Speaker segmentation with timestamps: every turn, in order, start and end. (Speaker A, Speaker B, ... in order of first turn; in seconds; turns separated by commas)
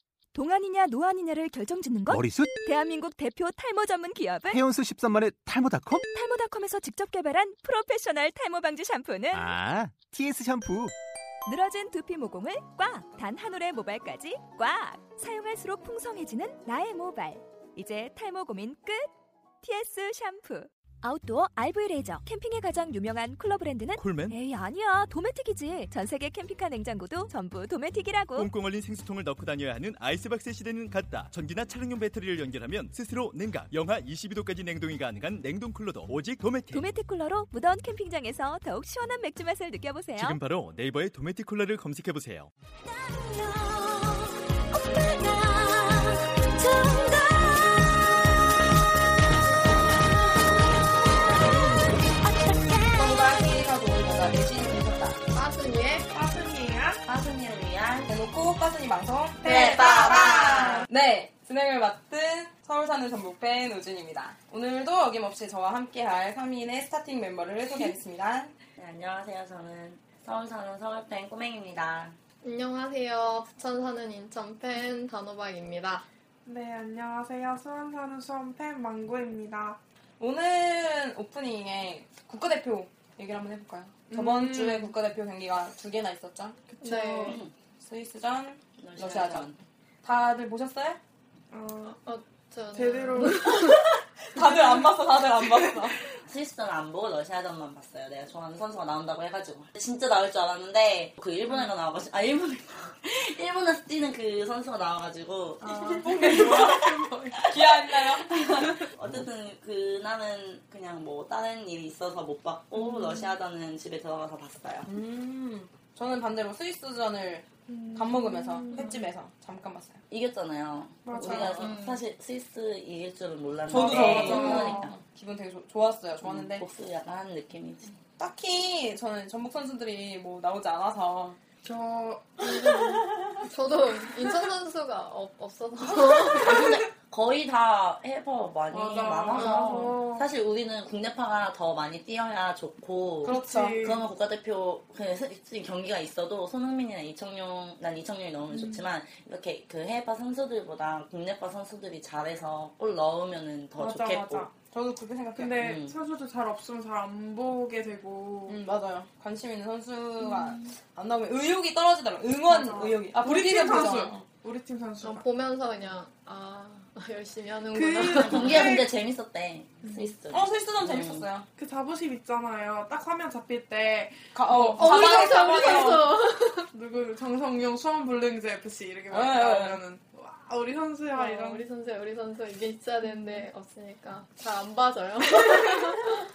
Speaker A: 0.3-4.6, Speaker B: 2.1-2.6, Speaker B: 4.5-6.1, Speaker A: 6.1-9.5, Speaker B: 9.3-10.9, Speaker A: 11.4-28.5, Speaker C: 24.0-24.4, Speaker C: 28.3-36.9, Speaker A: 36.7-40.4, Speaker C: 40.1-42.5, Speaker A: 42.8-53.0, Speaker D: 52.9-55.2, Speaker E: 55.3-56.1, Speaker F: 56.1-57.0, Speaker G: 57.0-58.1, Speaker D: 58.1-68.5, Speaker F: 59.4-60.9, Speaker G: 59.4-60.9, Speaker G: 68.8-72.2, Speaker E: 72.4-76.0, Speaker F: 76.4-79.8, Speaker D: 80.2-86.6, Speaker F: 84.1-84.9, Speaker F: 86.7-87.4, Speaker E: 86.8-87.4, Speaker G: 87.3-87.5, Speaker D: 87.8-89.5, Speaker G: 88.8-89.6, Speaker D: 90.0-91.0, Speaker F: 91.5-92.0, Speaker E: 92.0-93.7, Speaker F: 92.7-93.8, Speaker D: 94.3-96.0, Speaker F: 94.3-95.0, Speaker G: 96.2-114.9, Speaker F: 105.6-107.5, Speaker D: 106.0-106.8, Speaker D: 107.5-108.3, Speaker F: 112.7-113.3, Speaker D: 114.8-120.0, Speaker F: 117.7-119.0, Speaker G: 120.1-124.9, Speaker F: 121.0-122.0, Speaker D: 123.7-126.6, Speaker F: 123.7-124.9, Speaker G: 126.2-127.9, Speaker D: 128.2-131.4, Speaker F: 131.6-133.1, Speaker E: 132.5-136.6, Speaker G: 135.8-154.5, Speaker F: 136.4-136.7, Speaker F: 138.7-140.3, Speaker E: 139.4-139.9, Speaker F: 143.2-144.0, Speaker D: 143.2-143.8, Speaker F: 148.5-148.8, Speaker F: 153.8-154.5, Speaker D: 154.7-155.6, Speaker F: 155.3-158.6, Speaker G: 155.6-156.0, Speaker D: 158.5-164.2, Speaker F: 160.2-160.6, Speaker F: 162.5-165.2, Speaker E: 165.0-168.7, Speaker F: 167.7-168.9, Speaker G: 168.1-171.2, Speaker F: 169.8-170.1, Speaker D: 170.3-171.5, Speaker F: 171.6-175.9, Speaker D: 174.3-176.1, Speaker E: 174.8-176.7, Speaker F: 176.7-181.6, Speaker D: 179.1-179.8, Speaker E: 181.1-186.1, Speaker F: 185.3-185.9